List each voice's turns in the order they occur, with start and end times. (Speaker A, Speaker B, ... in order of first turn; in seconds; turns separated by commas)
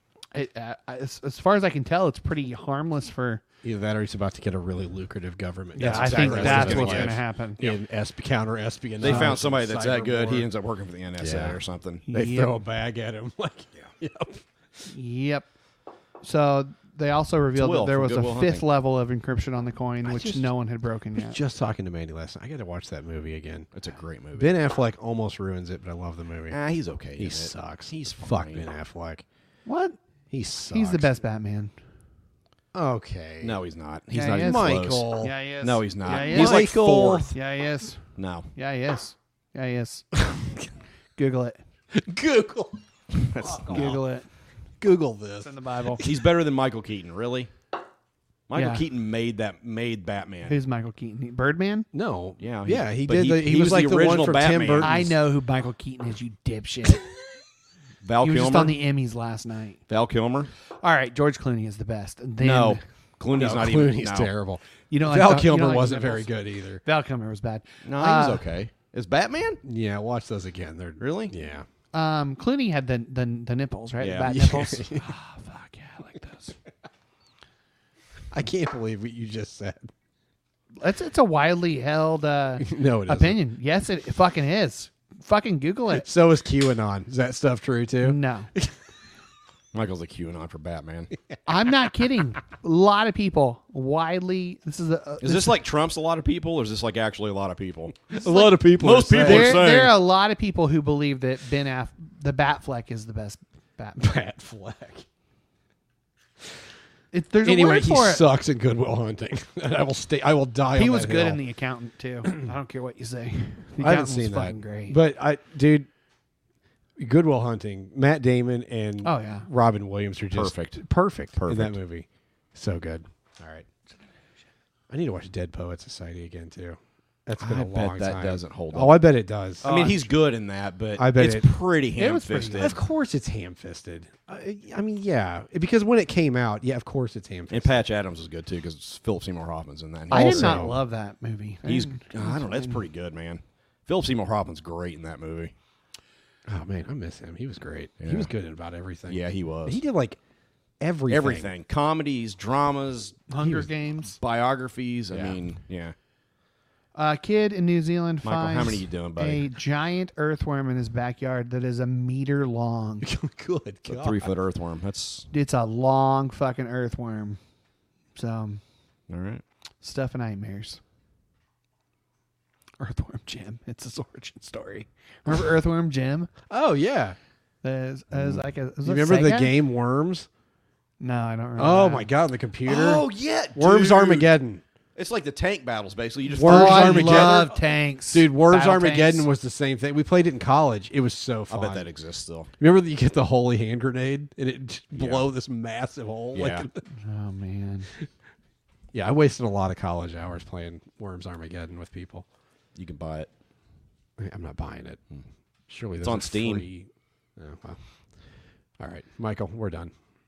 Speaker A: 0.3-3.4, Speaker B: 3.6-10.5, Speaker A: 5.7-7.6, Speaker C: 5.8-7.7, Speaker C: 9.0-12.0, Speaker A: 9.0-9.3, Speaker B: 11.2-14.4, Speaker A: 12.1-12.5, Speaker A: 14.9-15.5, Speaker A: 16.2-21.4, Speaker C: 17.6-18.6, Speaker B: 20.0-20.5, Speaker B: 21.1-23.7, Speaker C: 23.7-24.5, Speaker B: 24.4-26.6, Speaker C: 26.5-28.6, Speaker B: 27.2-29.2, Speaker A: 29.6-30.0, Speaker B: 30.3-31.1, Speaker A: 30.7-31.7, Speaker B: 32.7-33.6, Speaker C: 33.4-37.3, Speaker A: 34.1-36.7, Speaker B: 34.2-35.3, Speaker B: 36.0-37.3, Speaker A: 37.3-40.1, Speaker C: 38.1-38.5, Speaker A: 41.1-41.6, Speaker B: 41.9-42.8, Speaker C: 43.1-44.0, Speaker B: 43.4-44.0, Speaker A: 43.7-44.3, Speaker B: 44.8-46.1, Speaker A: 45.4-46.0, Speaker C: 46.0-47.5, Speaker C: 48.5-50.5, Speaker A: 48.5-48.8, Speaker A: 50.5-51.9, Speaker B: 51.9-55.1, Speaker C: 52.4-55.0, Speaker A: 54.8-57.0, Speaker C: 58.0-58.8, Speaker A: 58.2-59.8, Speaker C: 59.9-60.5, Speaker A: 60.8-62.8, Speaker C: 62.4-64.3, Speaker B: 63.3-66.8, Speaker A: 64.9-66.3, Speaker A: 66.8-68.4, Speaker C: 67.8-69.6, Speaker B: 69.6-71.7, Speaker C: 71.0-71.3, Speaker A: 71.9-76.5, Speaker C: 74.0-74.4, Speaker B: 74.2-75.1, Speaker B: 78.3-79.9, Speaker A: 80.8-86.1, Speaker B: 82.6-83.4, Speaker B: 85.9-88.7, Speaker A: 88.0-88.5, Speaker C: 89.7-91.1, Speaker A: 91.5-95.5, Speaker C: 95.2-100.0, Speaker B: 98.1-99.6, Speaker A: 99.2-104.1, Speaker B: 104.0-105.0, Speaker A: 107.1-108.2, Speaker B: 107.4-111.4, Speaker A: 110.8-115.0, Speaker B: 113.8-115.9, Speaker B: 117.0-123.1, Speaker A: 119.0-119.5, Speaker C: 120.3-121.8, Speaker C: 123.4-123.7, Speaker B: 124.9-130.0, Speaker C: 127.4-129.0, Speaker C: 129.6-132.8, Speaker B: 130.9-131.5, Speaker A: 132.0-132.7, Speaker B: 132.6-137.8, Speaker C: 137.5-140.7, Speaker B: 140.1-140.8, Speaker A: 140.1-142.8, Speaker C: 141.6-145.5, Speaker B: 146.5-150.2, Speaker C: 148.0-148.3, Speaker C: 149.1-149.8, Speaker B: 150.8-151.5, Speaker C: 151.1-153.5, Speaker A: 153.3-154.2, Speaker C: 154.2-155.9, Speaker B: 155.1-155.4, Speaker A: 156.9-163.1, Speaker C: 158.2-159.5, Speaker B: 163.0-164.3, Speaker C: 163.9-165.3, Speaker A: 165.3-167.4, Speaker A: 168.1-168.6, Speaker C: 169.1-169.4, Speaker A: 169.8-170.8, Speaker A: 172.8-176.3, Speaker B: 176.5-177.2, Speaker A: 177.6-179.5, Speaker B: 178.8-180.3, Speaker A: 181.0-182.1, Speaker B: 181.6-184.6, Speaker C: 182.7-184.3, Speaker C: 184.9-187.4, Speaker B: 186.3-187.6, Speaker A: 186.4-189.2, Speaker B: 188.1-191.8, Speaker C: 191.5-192.5, Speaker B: 192.6-196.8, Speaker C: 194.9-195.2, Speaker C: 196.3-196.7, Speaker A: 196.9-197.9, Speaker B: 198.9-202.2, Speaker C: 202.8-203.3, Speaker B: 204.2-205.0, Speaker B: 205.7-207.8, Speaker C: 206.0-206.7, Speaker B: 208.8-209.9